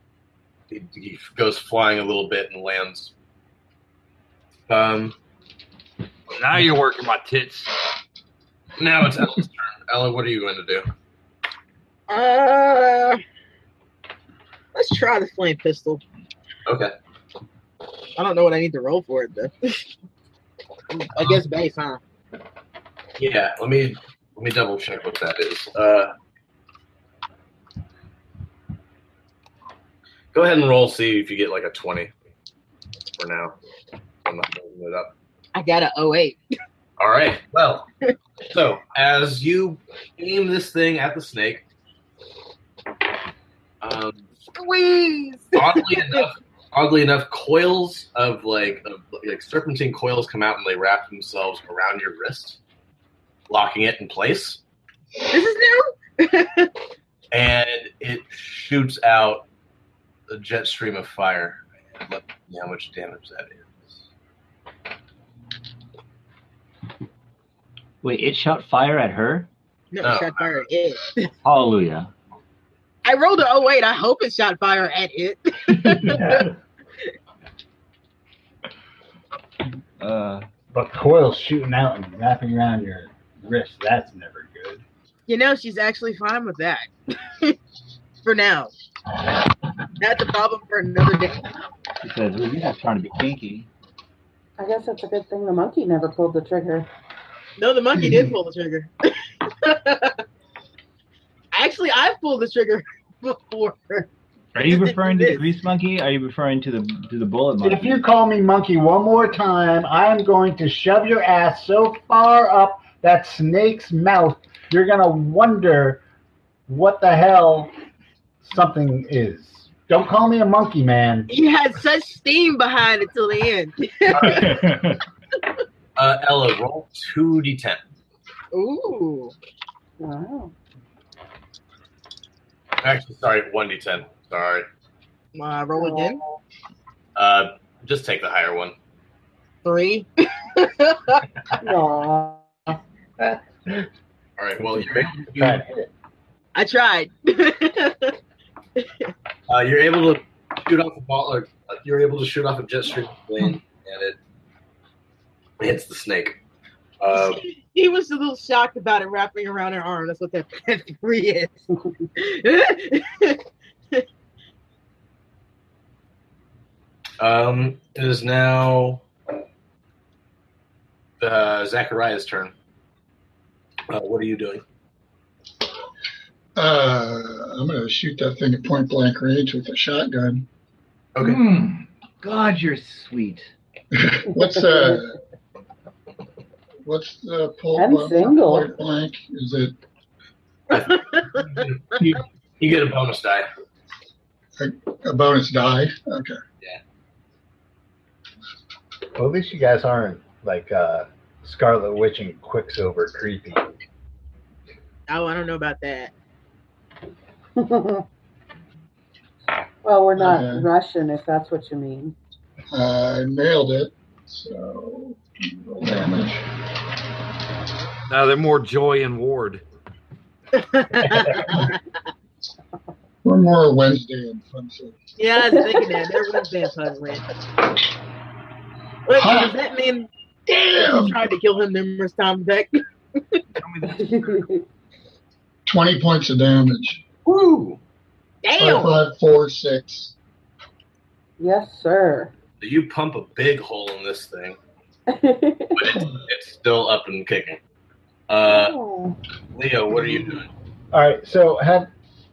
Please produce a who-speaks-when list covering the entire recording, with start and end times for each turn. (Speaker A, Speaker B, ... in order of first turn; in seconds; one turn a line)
Speaker A: 0.7-3.1
Speaker A: 4.7-5.1
Speaker B: 6.3-7.7
Speaker A: 8.8-10.9
Speaker C: 12.1-13.2
Speaker C: 14.7-16.0
Speaker A: 16.6-16.9
Speaker C: 18.1-19.8
Speaker C: 20.9-22.0
Speaker A: 23.2-26.1
Speaker A: 30.3-32.1
Speaker A: 33.2-33.5
Speaker A: 34.2-35.1
Speaker C: 35.5-36.4
Speaker A: 37.0-37.9
Speaker A: 38.5-41.6
Speaker A: 43.8-44.2
Speaker C: 44.5-46.2
Speaker A: 45.5-52.6
Speaker A: 53.5-54.6
Speaker C: 55.3-56.7
Speaker A: 57.3-59.5
Speaker A: 60.3-64.0
Speaker D: 68.0-69.5
Speaker C: 69.9-71.3
Speaker A: 70.0-70.5
Speaker D: 71.4-72.1
Speaker C: 73.0-76.5
Speaker D: 76.1-76.4
Speaker D: 80.0-80.5
Speaker E: 80.7-84.8
Speaker C: 85.3-87.6
Speaker C: 88.2-88.7
Speaker C: 90.0-91.5
Speaker D: 92.0-93.7
Speaker F: 94.6-96.9
Speaker C: 97.6-100.2
Speaker C: 101.5-104.1
Speaker D: 104.5-108.0
Speaker C: 104.6-105.5
Speaker E: 107.6-116.0
Speaker E: 116.7-117.7
Speaker E: 118.4-121.3
Speaker C: 121.3-124.8
Speaker A: 124.1-124.6
Speaker D: 124.2-125.0
Speaker A: 126.0-127.8
Speaker C: 128.5-129.3
Speaker F: 130.0-130.5
Speaker A: 132.8-134.7
Speaker C: 135.3-136.2
Speaker F: 135.7-136.4
Speaker A: 137.2-138.7
Speaker C: 139.6-141.2
Speaker F: 141.6-142.8
Speaker E: 143.2-143.9
Speaker A: 144.4-145.6
Speaker E: 144.7-145.9
Speaker C: 146.5-148.1
Speaker C: 148.8-149.1
Speaker A: 149.5-154.2
Speaker A: 155.6-156.4
Speaker A: 157.0-157.4
Speaker C: 157.1-163.4
Speaker A: 167.2-169.0
Speaker A: 171.2-172.5
Speaker A: 173.9-174.6
Speaker G: 176.6-180.5
Speaker D: 181.2-183.5
Speaker G: 183.9-185.2
Speaker F: 184.3-185.0
Speaker G: 186.8-189.8
Speaker F: 187.7-188.7
Speaker C: 190.7-191.7
Speaker A: 190.7-193.5
Speaker G: 194.6-196.4
Speaker E: 199.1-203.7
Speaker C: 205.1-206.1
Speaker F: 207.6-208.0
Speaker F: 209.8-212.2
Speaker G: 210.2-210.7
Speaker G: 212.7-216.5
Speaker B: 218.1-219.6
Speaker C: 220.5-221.8
Speaker G: 223.2-225.0
Speaker C: 225.2-227.2
Speaker F: 225.4-226.2
Speaker C: 229.1-230.1
Speaker G: 229.1-229.6
Speaker G: 230.5-231.2
Speaker C: 230.7-233.4
Speaker B: 233.6-234.4
Speaker F: 233.8-234.6
Speaker G: 235.7-237.0
Speaker A: 237.2-237.8
Speaker C: 238.4-238.9
Speaker G: 238.6-240.1
Speaker F: 241.4-242.3
Speaker A: 242.6-244.6
Speaker F: 245.1-246.0
Speaker A: 245.8-247.6
Speaker A: 248.3-248.8
Speaker F: 248.4-249.2
Speaker A: 249.5-250.5
Speaker E: 250.9-251.9